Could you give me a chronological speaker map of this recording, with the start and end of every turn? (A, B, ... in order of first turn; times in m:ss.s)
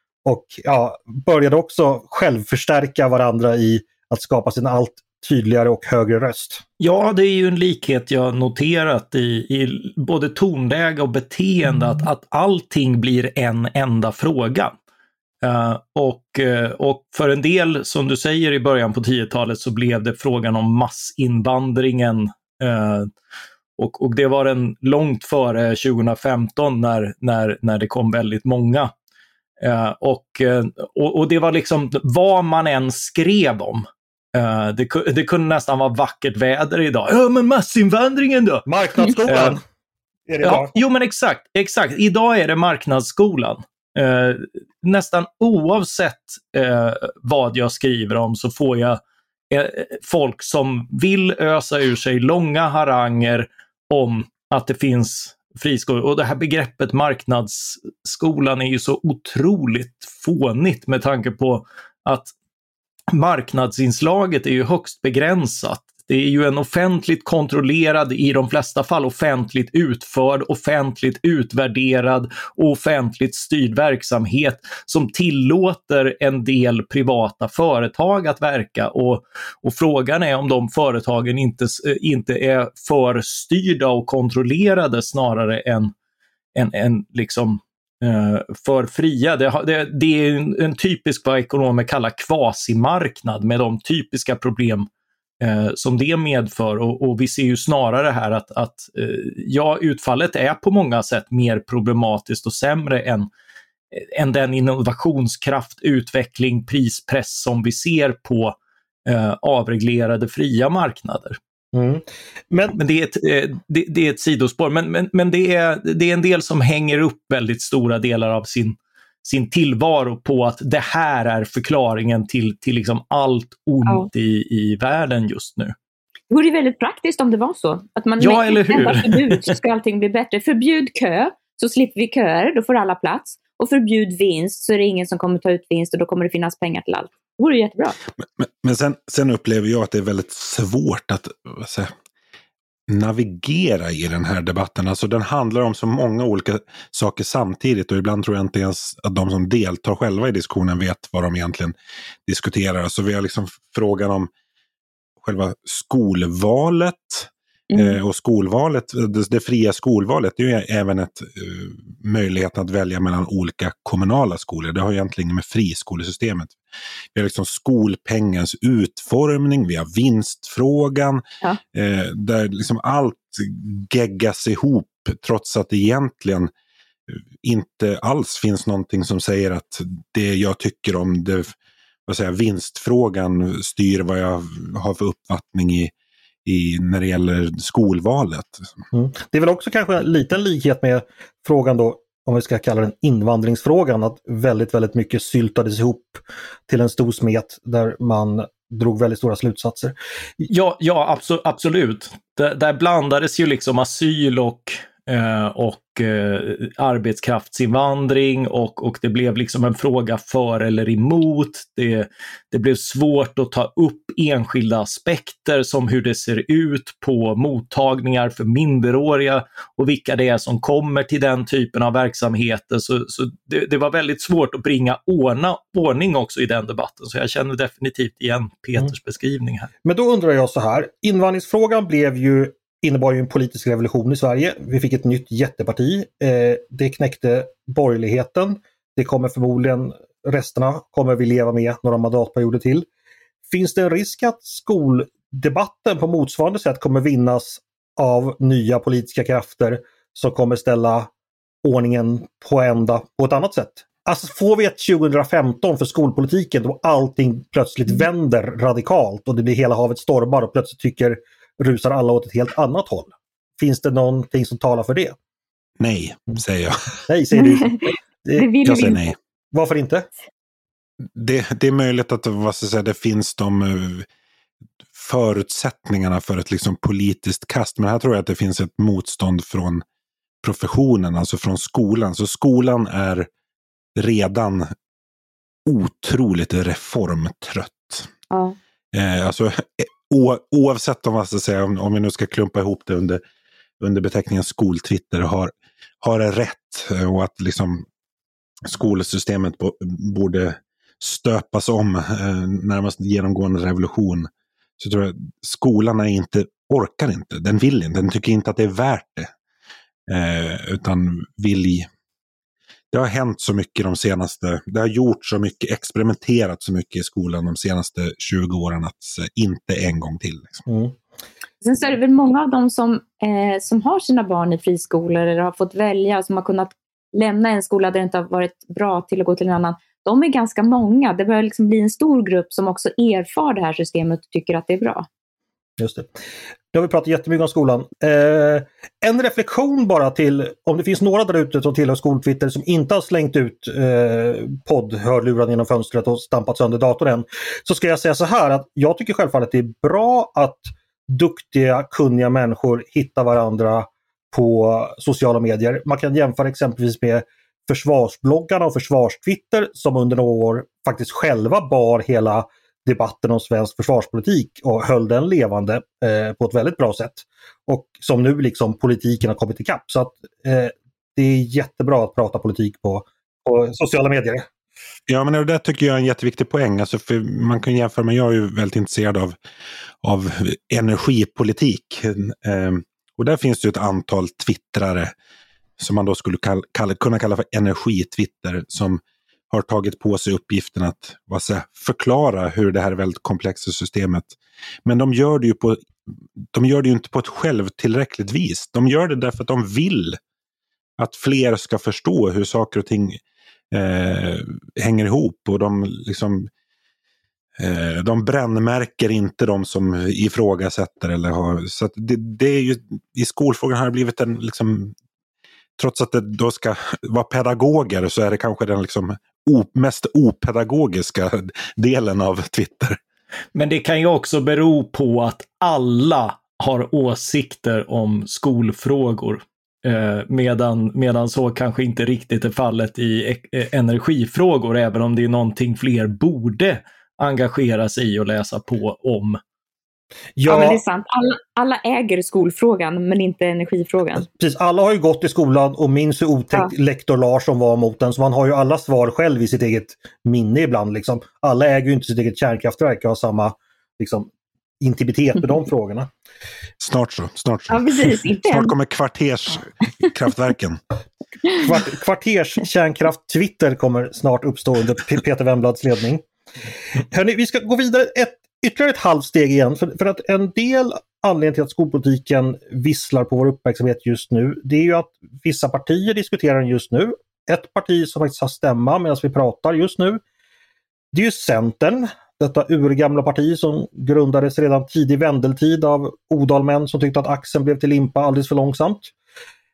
0:00.2-0:06.6 A
0:06.8-0:14.7 B
0:15.4-0:23.1 B
0:23.8-0:28.9 B
0:29.6-0:38.6 B
0:38.6-0:39.6 A
0:39.3-0:39.6 B
0:40.3-0:40.7 A
0:40.4-0:49.0 B
0:49.5-1:02.3 B
1:03.1-1:25.9 B
1:26.5-1:34.9 B
1:35.4-1:43.3 B
1:43.9-1:48.5 B
1:49.0-1:51.4 B
1:51.7-1:52.8 A
1:52.8-2:05.7 B
2:06.3-2:18.0 C
2:08.2-2:09.5 B
2:18.2-2:21.9 D
2:22.9-2:31.7 D
2:32.2-2:34.3 D
2:35.2-2:46.6 D
2:37.7-2:38.0 C
2:47.1-2:56.5 D
2:57.1-3:01.5 D
3:02.1-3:05.9 D
3:06.4-3:08.7 D
3:08.9-3:19.9 A
3:20.4-3:49.7 B
3:49.8-4:02.9 A
4:03.5-4:11.1 A
4:11.6-4:25.1 A
4:25.8-4:26.8 D
4:27.1-4:28.5 A
4:27.4-4:29.0 C
4:28.6-4:29.2 D
4:29.5-4:30.1 A
4:31.1-4:34.0 D
4:34.9-4:39.8 D
4:40.4-4:43.3 D
4:44.0-4:44.7 D
4:45.6-4:48.1 D
4:48.3-4:48.6 C
4:48.9-4:53.2 D
4:53.8-4:57.8 D
4:58.6-5:09.3 D
5:10.1-5:11.9 D
5:12.9-5:20.6 D
5:20.7-5:21.0 A
5:21.6-5:35.1 C
5:35.8-5:36.1 A
5:36.7-6:14.5 A
6:15.1-6:19.4 D
6:20.0-6:25.1 D
6:25.8-6:35.8 D
6:36.5-6:40.2 D
6:41.0-6:43.2 D
6:43.7-6:46.5 D
6:47.6-6:54.9 D
6:55.8-7:03.0 D
7:03.5-7:19.4 B
7:20.4-7:20.8 A
7:20.5-7:24.2 C
7:24.2-7:36.1 A
7:36.8-7:40.8 D
7:37.7-7:38.7 C
7:41.5-7:46.2 A
7:47.1-8:00.2 A
8:01.1-8:09.1 A